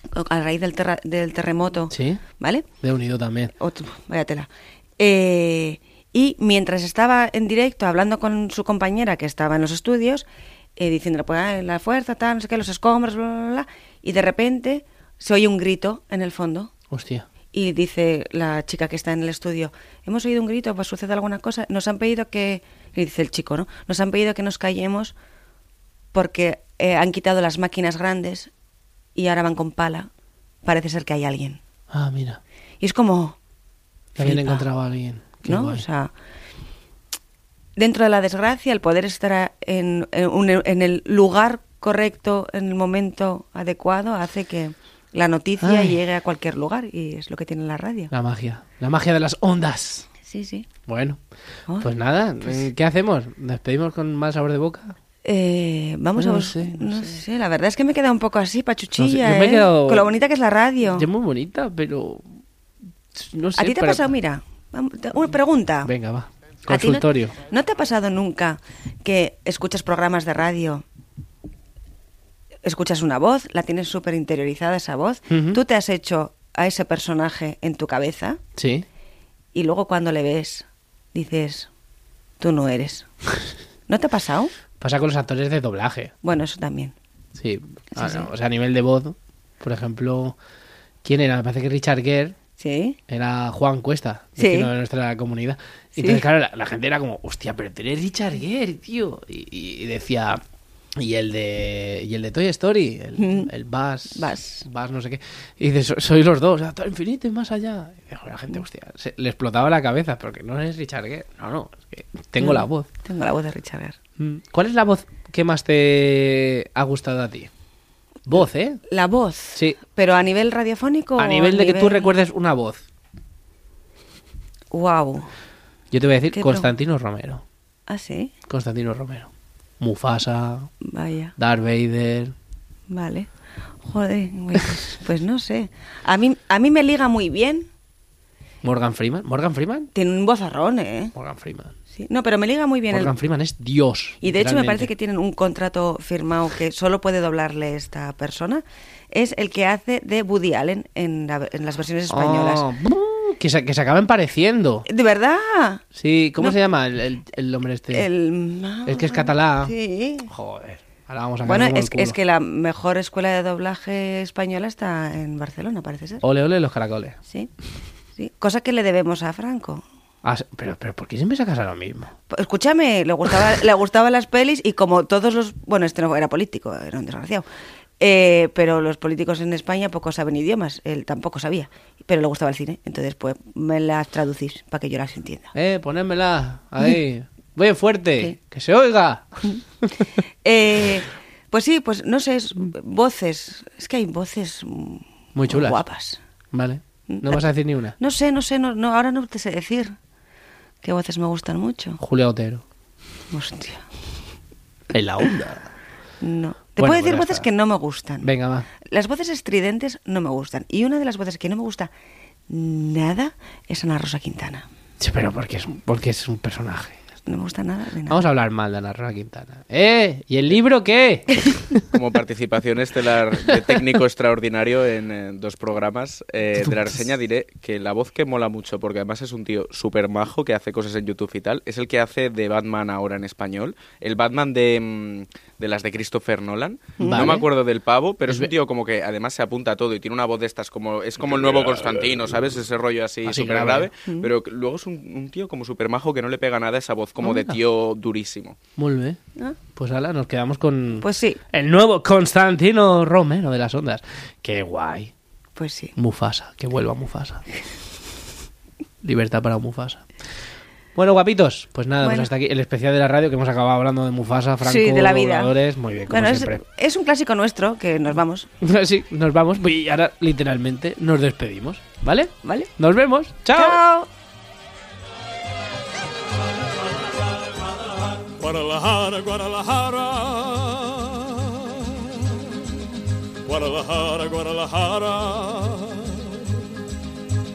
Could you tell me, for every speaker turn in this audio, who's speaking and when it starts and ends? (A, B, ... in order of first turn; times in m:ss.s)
0:00.1-0:02.7 A
0:01.9-0:02.2 B
0:02.8-0:03.5 B
0:03.6-0:16.7 A
0:16.9-0:17.2 B
0:17.5-0:25.1 A
0:26.1-0:28.5 A
0:29.2-0:30.1 A
0:30.6-0:31.6 A
0:31.9-0:32.4 B
0:32.8-0:33.4 A
0:34.2-0:35.8 B
0:34.2-0:34.7 A
0:35.4-0:36.1 A
0:37.8-0:48.1 A
0:45.6-0:46.0 B
0:48.1-0:50.1 B
0:50.2-0:50.7 A
0:50.9-0:51.2 B
0:51.8-0:55.0 B
0:55.2-1:01.1 A
0:56.2-0:57.2 B
0:59.0-1:00.1 B
1:00.8-1:02.2 B
1:03.1-1:04.1 B
1:03.6-1:05.9 A
1:05.8-1:07.4 B
1:06.7-1:10.8 A
1:12.6-1:18.4 A
1:15.3-1:15.6 B
1:18.6-1:18.8 B
1:19.5-1:21.7 A
1:22.4-1:23.1 A
1:23.9-1:24.5 A
1:24.8-1:26.1 B
1:26.2-1:26.9 A
1:27.4-1:30.4 B
1:27.9-1:28.3 A
1:31.0-1:32.4 B
1:32.6-1:33.0 A
1:33.1-1:40.4 B
1:34.4-1:34.7 A
1:36.0-1:36.2 A
1:41.0-1:52.9 B
1:43.2-1:43.5 A
1:44.1-1:44.6 A
1:52.4-1:54.0 A
1:54.2-1:57.5 B
1:58.2-1:58.8 B
1:58.9-2:02.1 A
1:59.5-1:59.8 B
2:01.2-2:02.8 B
2:04.7-2:05.3 A
2:05.9-2:07.4 B
2:06.3-2:06.7 A
2:07.9-2:08.3 A
2:08.5-2:10.7 B
2:10.8-2:11.3 A
2:11.4-2:12.3 B
2:12.9-2:13.3 A
2:13.8-2:17.7 A
2:18.6-2:19.9 B
2:19.9-2:21.1 A
2:21.1-2:21.7 B
2:21.9-2:23.1 A
2:22.9-2:24.9 B
2:24.2-2:32.6 A
2:32.1-2:34.8 B
2:34.9-2:35.8 A
2:35.9-2:38.1 B
2:37.9-2:40.3 A
2:38.8-2:39.7 B
2:40.2-2:42.2 B
2:41.4-2:46.2 A
2:46.2-2:47.2 B
2:47.2-2:47.5 A
2:48.2-2:49.8 A
2:50.2-2:52.1 B
2:52.3-2:57.4 A
2:58.0-3:05.5 A
3:05.5-3:10.0 B
3:10.4-3:16.2 A
3:15.3-3:15.8 B
3:16.5-3:17.9 B
3:17.1-3:17.4 A
3:18.0-3:19.9 A
3:20.8-3:22.0 A
3:22.0-3:22.6 B
3:23.3-3:23.8 A
3:24.9-3:25.7 B
3:26.2-3:28.3 A
3:26.8-3:27.5 B
3:28.2-3:28.7 B
3:28.8-3:31.9 A
3:32.5-3:34.6 A
3:35.0-3:37.0 B
3:37.2-3:38.2 A
3:38.1-3:41.8 B
3:41.9-4:08.6 C
3:57.0-3:57.4 A
3:57.0-3:57.4 B
4:03.2-4:03.9 B
4:04.0-4:04.3 A
4:07.2-4:07.6 B
4:08.8-4:09.2 B
4:09.8-4:15.1 B
4:11.0-4:11.4 A
4:15.6-4:15.9 A
4:16.0-4:17.4 B
4:19.0-4:20.0 B
4:20.9-4:26.6 B
4:22.0-4:22.3 A
4:24.6-4:25.5 A
4:26.1-4:28.5 A
4:28.6-4:33.8 B
4:32.4-4:32.7 A
4:33.5-4:34.1 A
4:38.4-4:42.2 D
4:43.4-4:46.2 D